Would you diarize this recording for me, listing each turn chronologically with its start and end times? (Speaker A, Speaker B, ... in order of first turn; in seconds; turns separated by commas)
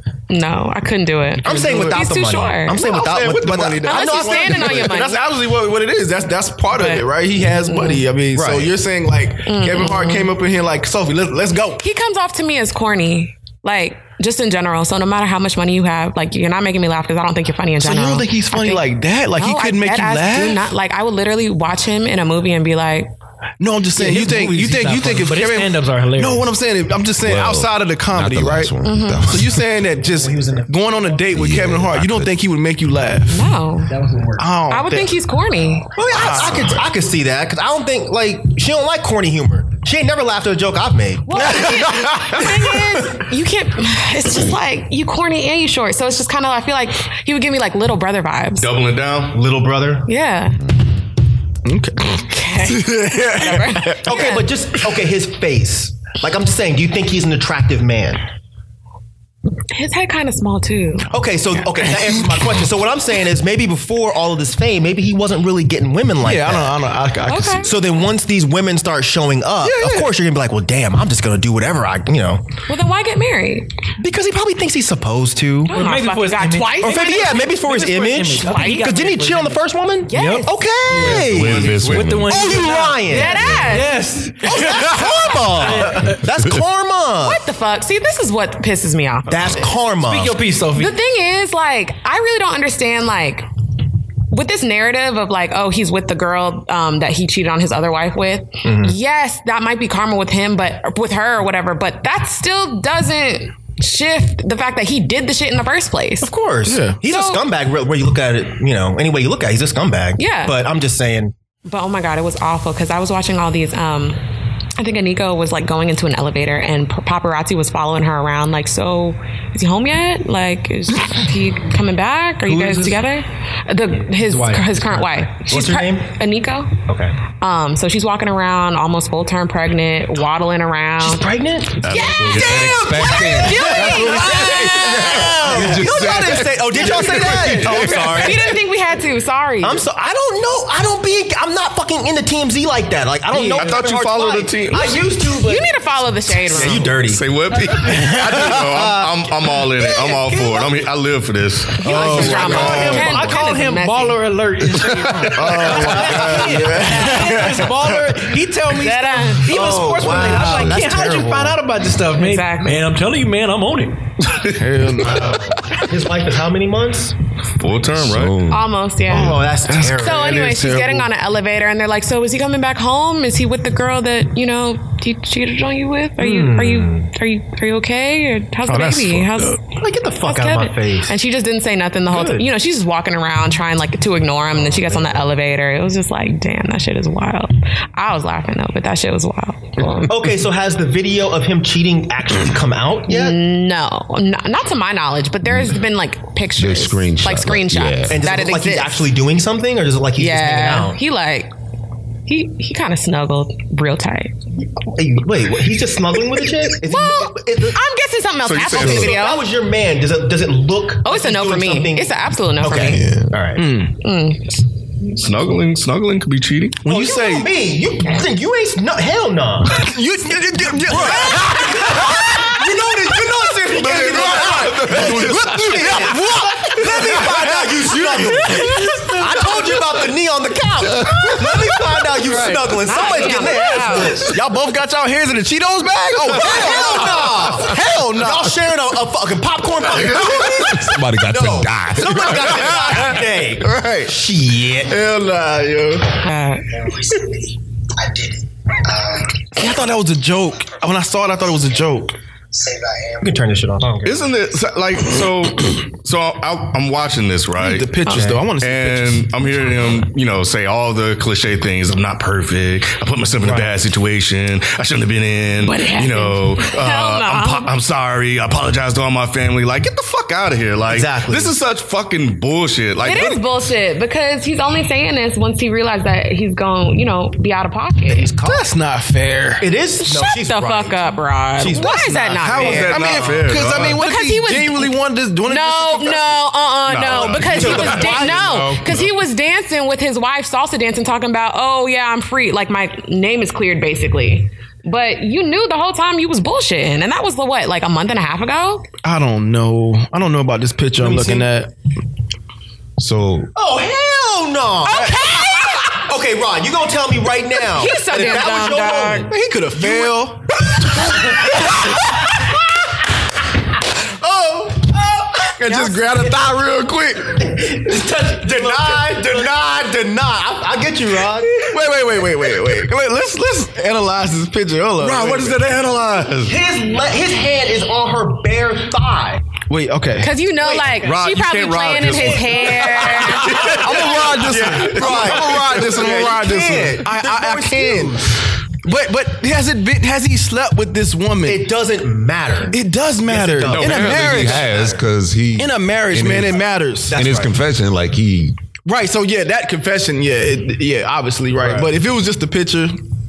Speaker A: 0.3-2.8, Speaker B: 1.4-4.9, Speaker C: 1.5-2.0, Speaker C: 2.8-11.8, Speaker A: 3.9-5.2, Speaker A: 6.7-8.0, Speaker B: 8.3-8.7, Speaker A: 9.5-10.3, Speaker A: 11.8-23.1, Speaker C: 17.8-20.7, Speaker C: 23.6-33.5, Speaker D: 23.9-26.6, Speaker E: 27.2-29.6, Speaker A: 28.8-29.4, Speaker D: 30.0-31.2, Speaker E: 31.3-32.3, Speaker A: 33.3-34.0, Speaker D: 33.9-34.5, Speaker C: 34.4-35.2, Speaker A: 34.7-36.0, Speaker B: 36.0-41.9, Speaker C: 36.1-36.8, Speaker A: 41.3-48.7, Speaker C: 41.4-43.1, Speaker F: 48.6-49.4, Speaker B: 49.3-50.1, Speaker A: 50.1-50.6, Speaker C: 51.6-54.0, Speaker A: 52.3-54.5, Speaker B: 54.0-58.2, Speaker A: 59.7-61.7, Speaker B: 61.1-66.8, Speaker C: 66.2-67.8, Speaker A: 67.3-67.7, Speaker B: 67.6-72.5, Speaker C: 69.6-70.1, Speaker A: 72.7-73.7, Speaker B: 74.0-75.8, Speaker A: 75.7-79.5, Speaker D: 75.7-79.6, Speaker B: 76.8-83.4, Speaker A: 80.1-80.5, Speaker D: 80.1-86.2, Speaker E: 81.1-82.5, Speaker F: 81.3-82.2, Speaker A: 83.1-84.0, Speaker E: 83.3-83.9, Speaker B: 84.4-87.4, Speaker A: 87.2-89.6, Speaker B: 89.3-90.4, Speaker D: 90.0-91.0, Speaker A: 90.7-93.5, Speaker A: 94.3-106.3, Speaker B: 98.6-99.0, Speaker B: 106.2-111.3, Speaker C: 106.7-107.0, Speaker A: 107.0-107.4, Speaker A: 110.2-110.6, Speaker A: 111.7-114.2, Speaker A: 114.8-126.8, Speaker D: 122.5-123.0, Speaker D: 124.1-125.1, Speaker B: 125.4-126.1, Speaker B: 126.9-127.2, Speaker A: 127.4-131.3, Speaker B: 131.0-138.6, Speaker F: 131.8-132.8, Speaker A: 131.8-135.5, Speaker E: 132.2-138.2, Speaker C: 136.8-137.7, Speaker D: 137.5-138.0, Speaker A: 137.9-139.8, Speaker B: 139.6-145.6, Speaker D: 143.3-144.2, Speaker F: 143.6-145.0, Speaker D: 144.7-145.7, Speaker A: 145.4-146.9, Speaker B: 146.4-150.5, Speaker F: 146.8-153.1, Speaker D: 147.7-148.1, Speaker A: 151.8-154.2, Speaker C: 151.8-153.1, Speaker B: 151.8-153.0, Speaker D: 152.0-164.1, Speaker E: 153.1-153.4, Speaker C: 155.2-157.8, Speaker F: 155.4-156.6, Speaker B: 155.5-156.7, Speaker A: 158.7-159.6, Speaker B: 159.5-161.6, Speaker E: 160.4-160.8, Speaker A: 162.2-162.9, Speaker F: 164.3-165.2, Speaker C: 164.4-165.4, Speaker B: 165.1-167.2, Speaker D: 165.1-165.4, Speaker F: 167.6-168.4, Speaker E: 167.9-168.7, Speaker A: 168.5-190.1, Speaker B: 169.1-170.4, Speaker C: 169.7-171.1, Speaker B: 176.2-177.1, Speaker C: 178.7-179.6, Speaker B: 179.7-181.2, Speaker B: 182.1-182.5, Speaker B: 184.5-185.2, Speaker B: 190.1-193.4, Speaker A: 193.1-199.1, Speaker E: 195.5-195.8, Speaker E: 196.6-198.2, Speaker B: 198.1-201.0, Speaker A: 200.2-201.5, Speaker A: 202.3-204.3, Speaker B: 204.6-207.8, Speaker A: 206.8-209.4, Speaker F: 208.4-209.2, Speaker B: 208.7-213.7, Speaker A: 211.0-213.0, Speaker C: 212.9-214.0, Speaker A: 214.0-214.6, Speaker F: 215.2-216.8, Speaker C: 216.8-217.5, Speaker B: 216.9-220.0, Speaker C: 219.7-222.3, Speaker B: 220.6-234.4, Speaker E: 223.8-225.9, Speaker C: 223.9-229.8, Speaker F: 224.1-225.1, Speaker D: 229.1-229.4, Speaker E: 231.1-231.6, Speaker C: 232.2-232.7, Speaker A: 232.8-234.2, Speaker C: 234.2-238.6, Speaker B: 236.3-245.0, Speaker E: 240.2-242.7, Speaker C: 242.6-244.1, Speaker C: 244.8-246.2, Speaker A: 246.2-246.7, Speaker G: 246.7-249.4, Speaker C: 249.6-252.1, Speaker G: 252.5-253.4, Speaker B: 253.2-254.4, Speaker F: 254.0-257.9, Speaker C: 257.6-259.4, Speaker A: 258.1-258.4, Speaker B: 258.1-258.4, Speaker F: 258.6-273.4, Speaker A: 265.6-267.7, Speaker B: 270.9-271.5, Speaker A: 273.0-278.3, Speaker B: 278.1-278.7, Speaker C: 278.4-279.6, Speaker B: 279.6-281.0, Speaker A: 280.0-283.0, Speaker B: 281.6-283.8, Speaker C: 282.4-286.5, Speaker F: 282.6-284.0, Speaker A: 284.0-284.9, Speaker A: 285.5-298.9, Speaker F: 286.9-289.1, Speaker B: 287.1-288.8, Speaker C: 299.0-301.7, Speaker B: 301.0-301.5, Speaker E: 303.0-303.5, Speaker B: 303.6-310.2, Speaker A: 304.9-306.0, Speaker A: 307.7-309.3, Speaker C: 309.3-310.5, Speaker B: 310.8-311.9, Speaker B: 314.2-315.2, Speaker C: 315.6-317.5, Speaker A: 315.7-316.0, Speaker D: 317.4-319.4, Speaker B: 318.3-321.7, Speaker C: 321.4-325.6, Speaker B: 325.0-325.4, Speaker F: 325.0-326.6, Speaker B: 326.4-329.6, Speaker C: 329.6-330.3, Speaker A: 330.2-333.7, Speaker F: 330.7-336.0, Speaker C: 333.4-338.3, Speaker B: 333.5-338.4, Speaker C: 338.8-341.7, Speaker B: 341.4-345.0, Speaker C: 342.7-344.8, Speaker F: 343.7-344.5, Speaker E: 343.8-346.6, Speaker C: 345.6-347.2, Speaker B: 347.1-347.6, Speaker E: 347.1-348.6, Speaker C: 348.9-353.0, Speaker B: 351.6-351.9